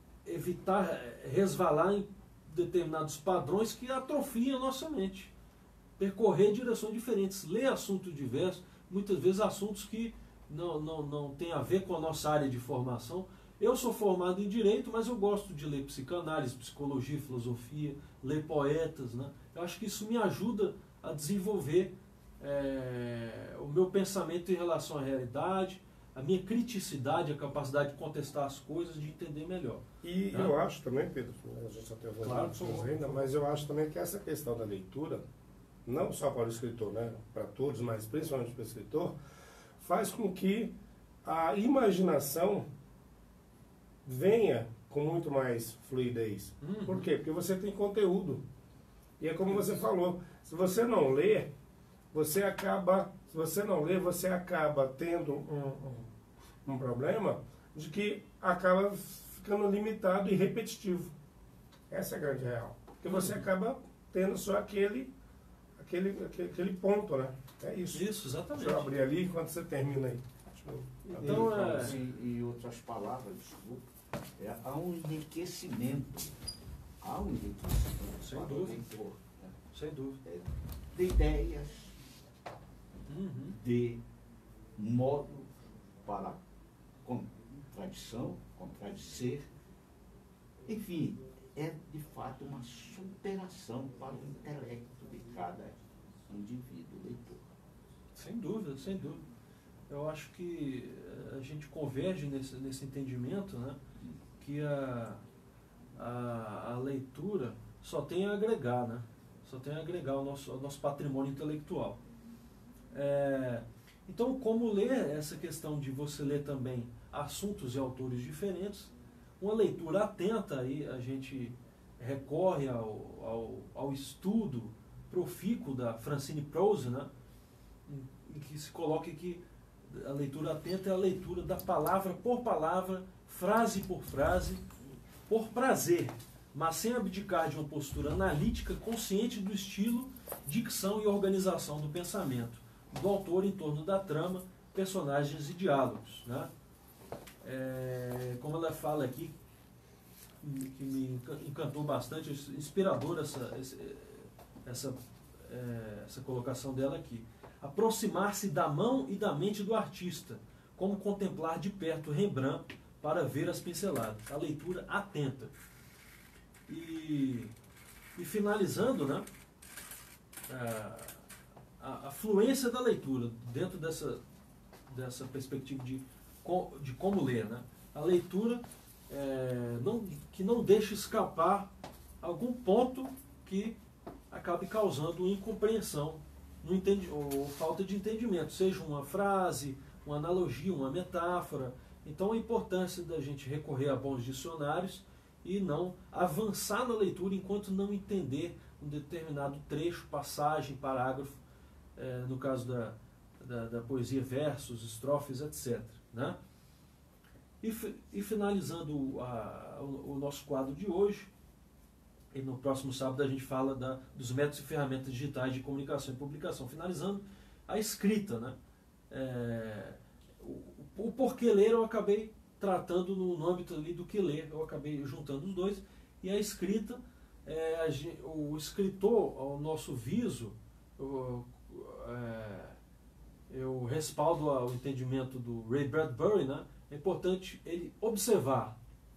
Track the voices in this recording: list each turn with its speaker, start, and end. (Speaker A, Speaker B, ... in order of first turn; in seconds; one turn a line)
Speaker A: 0.2-5.3
Speaker A: 6.0-30.6
Speaker B: 30.0-35.2
Speaker A: 32.2-33.3
Speaker B: 35.9-39.1
Speaker B: 39.8-42.7
Speaker B: 44.0-48.4
Speaker A: 46.6-47.1
Speaker B: 49.2-51.5
Speaker B: 52.1-56.1
Speaker B: 56.7-61.1
Speaker B: 61.9-65.1
Speaker A: 63.0-63.5
Speaker B: 65.8-72.0
Speaker A: 67.9-68.9
Speaker A: 71.0-72.0
Speaker C: 71.3-73.9
Speaker C: 74.4-76.3
Speaker C: 77.0-79.5
Speaker A: 78.2-78.9
Speaker A: 79.7-80.2
Speaker C: 80.2-81.9
Speaker A: 83.1-83.6
Speaker C: 83.5-84.0
Speaker C: 84.8-85.5
Speaker C: 86.0-86.4
Speaker C: 87.0-89.5
Speaker C: 90.7-97.4
Speaker A: 98.2-99.2
Speaker A: 99.9-103.8
Speaker A: 104.4-105.2
Speaker A: 106.0-112.0
Speaker A: 112.9-127.1
Speaker A: 127.9-134.6
Speaker A: 135.3-146.5
Speaker A: 147.4-149.3
Speaker A: 150.4-165.5
Speaker A: 166.7-167.5
Speaker A: 168.2-169.3
Speaker A: 170.5-171.2
Speaker A: 171.8-174.2
Speaker A: 174.9-183.8
Speaker A: 184.3-201.4
Speaker A: 202.0-206.4
Speaker A: 207.6-211.3
Speaker A: 212.3-218.6
Speaker A: 219.1-232.8
Speaker A: 233.5-238.8